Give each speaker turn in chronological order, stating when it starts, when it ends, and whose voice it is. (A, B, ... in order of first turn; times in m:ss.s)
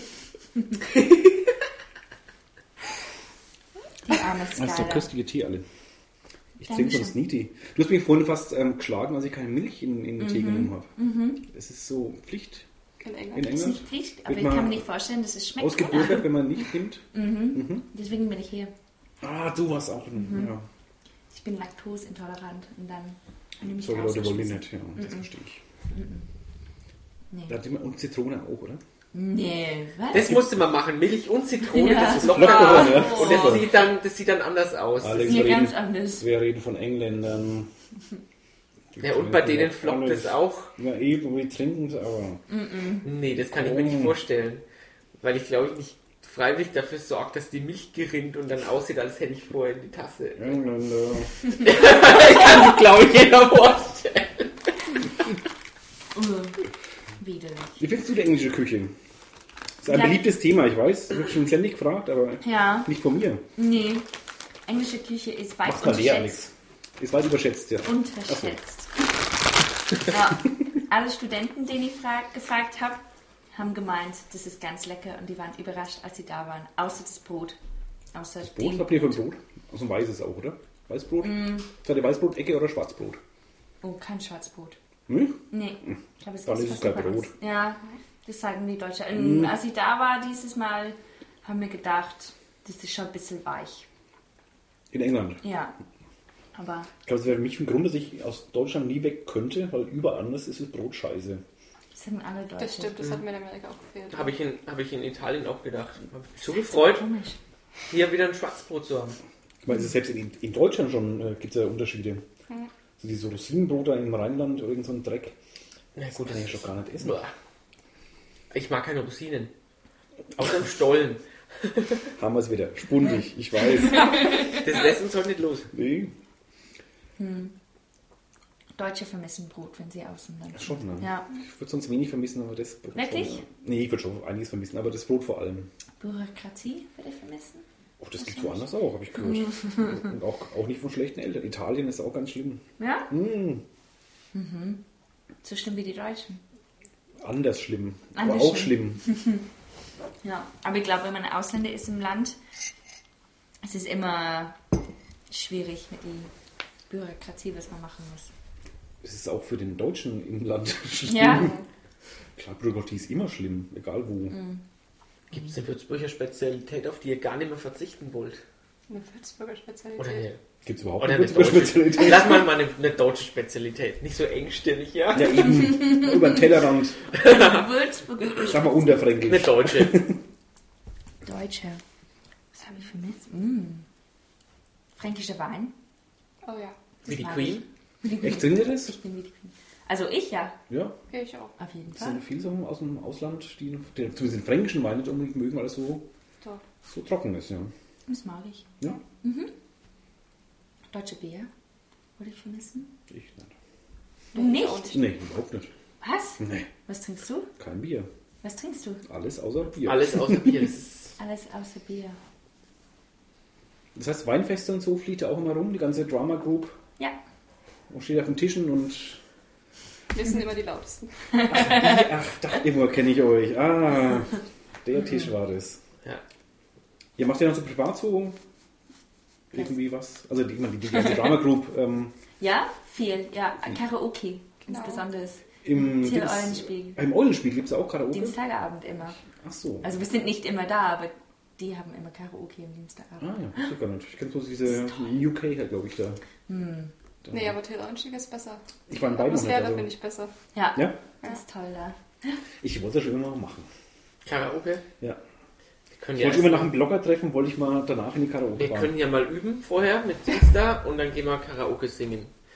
0:00.9-0:01.4 A
0:04.0-0:05.1 B
0:04.5-0:05.6 C
0:06.6-0:07.1 B
0:06.6-0:10.9 C
0:10.2-0:11.4 B
0:11.4-0:12.6 C
0:13.0-0:13.5 D
0:13.3-0:14.9 C
0:13.5-0:16.4 B
0:15.6-0:17.8 C
0:17.1-0:18.7 B
0:19.2-0:20.6 C
0:20.2-0:20.5 B
0:21.3-0:25.3 B
0:23.7-0:25.6 C
0:25.9-0:26.2 B
0:27.3-0:27.6 B
0:27.5-0:28.8 C
0:29.1-0:30.3 B
0:30.1-0:35.6 A
0:30.1-0:30.4 C
0:31.7-0:33.7 B
0:32.1-0:33.7 C
0:35.0-0:37.7 C
0:35.3-0:36.3 B
0:38.9-0:42.4 C
0:39.0-0:40.7 A
0:42.5-0:43.0 B
0:43.0-0:44.6 A
0:43.4-0:44.2 C
0:45.2-0:50.6 A
0:50.4-0:51.4 C
0:51.6-0:54.8 A
0:56.1-0:56.6 B
0:57.2-0:57.8 B
0:57.8-0:58.9 C
0:59.8-1:03.4 C
0:59.9-1:00.2 B
1:02.4-1:02.9 B
1:03.6-1:04.1 B
1:04.6-1:06.4 B
1:05.6-1:08.6 C
1:07.8-1:09.0 B
1:10.0-1:13.0 B
1:13.5-1:17.6 B
1:18.1-1:19.2 B
1:18.4-1:23.2 C
1:21.2-1:21.7 B
1:23.8-1:24.8 B
1:25.1-1:27.3 C
1:25.5-1:33.8 B
1:29.1-1:29.5 C
1:34.9-1:35.4 C
1:35.4-1:35.7 B
1:36.5-1:36.9 B
1:37.0-1:41.4 C
1:41.9-1:43.2 B
1:42.6-1:44.3 D
1:44.1-1:47.1 A
1:46.8-1:47.4 B
1:47.9-1:49.2 A
1:49.6-1:52.2 C
1:53.0-1:55.4 C
1:55.9-1:57.3 A
1:56.1-1:57.2 C
1:58.5-1:59.5 A
2:00.4-2:02.1 A
2:02.2-2:04.5 C
2:03.8-2:04.6 B
2:04.5-2:05.7 A
2:05.7-2:06.1 C
2:07.2-2:07.5 B
2:08.8-2:11.3 B
2:10.5-2:15.7 C
2:13.0-2:13.4 B
2:16.0-2:17.6 B
2:18.0-2:23.6 C
2:18.2-2:18.7 B
2:19.2-2:20.0 B
2:22.8-2:23.1 B
2:24.3-2:24.8 B
2:25.4-2:26.4 B
2:27.2-2:29.0 C
2:28.1-2:29.4 B
2:30.2-2:32.4 B
2:33.6-2:34.6 B
2:35.3-2:36.3 B
2:36.9-2:38.3 B
2:39.0-2:41.5 C
2:41.0-2:41.5 B
2:41.3-2:41.6 D
2:42.4-2:44.4 C
2:44.3-2:44.6 B
2:45.3-2:48.4 A
2:48.9-2:50.2 D
2:50.0-2:50.4 A
2:50.6-2:52.5 C
2:51.0-2:55.5 A
2:55.1-2:57.0 C
2:55.6-2:56.4 B
2:57.1-2:57.6 A
2:57.2-2:58.7 B
2:58.4-3:00.2 C
2:59.2-3:00.0 A
3:01.2-3:01.8 B
3:02.5-3:03.8 B
3:05.0-3:05.7 B
3:06.4-3:06.8 D
3:07.0-3:07.6 A
3:07.0-3:10.6 B
3:08.2-3:09.0 C
3:10.7-3:11.0 C
3:11.1-3:11.5 D
3:11.6-3:12.2 B
3:11.9-3:16.1 C
3:16.8-3:17.7 C
3:18.1-3:19.5 B
3:20.9-3:21.5 B
3:22.2-3:22.9 B
3:23.1-3:23.5 C
3:24.3-3:25.0 D
3:24.3-3:24.9 B
3:24.9-3:25.7 C
3:26.0-3:27.5 B
3:26.4-3:26.7 C
3:27.6-3:28.1 C
3:28.4-3:29.0 B
3:29.0-3:30.7 C
3:29.8-3:31.2 A
3:31.2-3:32.2 B
3:33.9-3:36.8 C
3:37.9-3:39.2 C
3:40.1-3:41.3 D
3:41.4-3:41.8 B
3:41.4-3:45.8 C
3:47.2-3:48.4 C
3:49.5-3:52.2 C
3:50.9-3:51.4 B
3:52.4-3:57.0 B
3:54.6-3:55.0 D
3:55.6-3:58.4 C
3:58.1-3:59.2 B
3:59.2-4:00.0 C
3:59.8-4:03.3 B
4:03.2-4:06.2 C
4:04.7-4:05.0 B
4:06.5-4:06.9 B
4:07.2-4:07.6 C
4:07.3-4:10.3 D
4:08.9-4:09.9 C
4:10.5-4:12.4 B
4:12.6-4:13.7 C
4:14.2-4:14.8 A
4:15.9-4:16.8 A
4:16.2-4:18.9 C
4:18.6-4:22.3 A